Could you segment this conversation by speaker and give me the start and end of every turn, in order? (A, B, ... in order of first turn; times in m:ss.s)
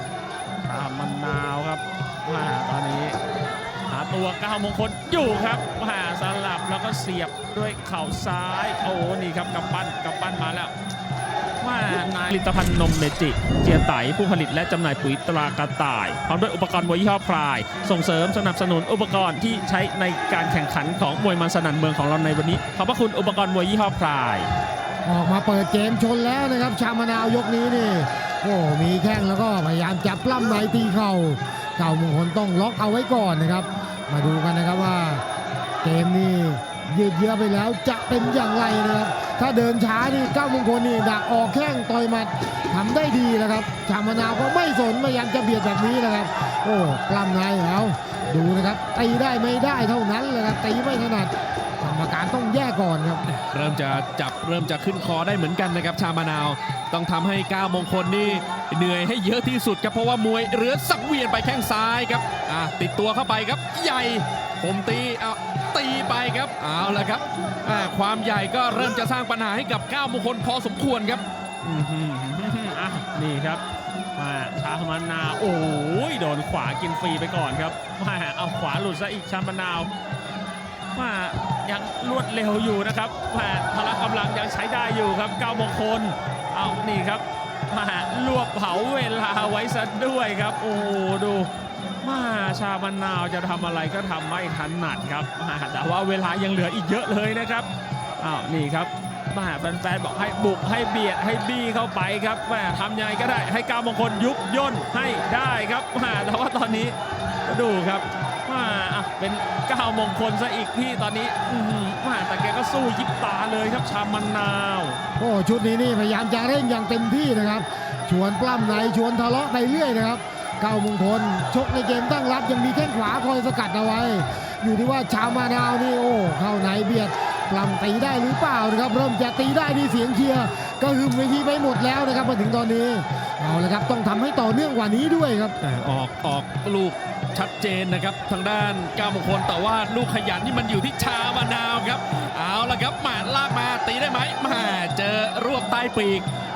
0:00.6-0:03.2 A
0:03.8-0:10.7 A
0:11.6-0:24.5 A
0:25.0-0:35.2 B
0:35.8-0:53.2 B
0:53.3-1:11.2 C
1:11.6-1:13.6 A
1:14.2-1:19.9 A
1:20.9-1:31.5 A
1:32.0-1:55.0 A
1:55.2-2:15.6 B
2:15.6-2:26.3 C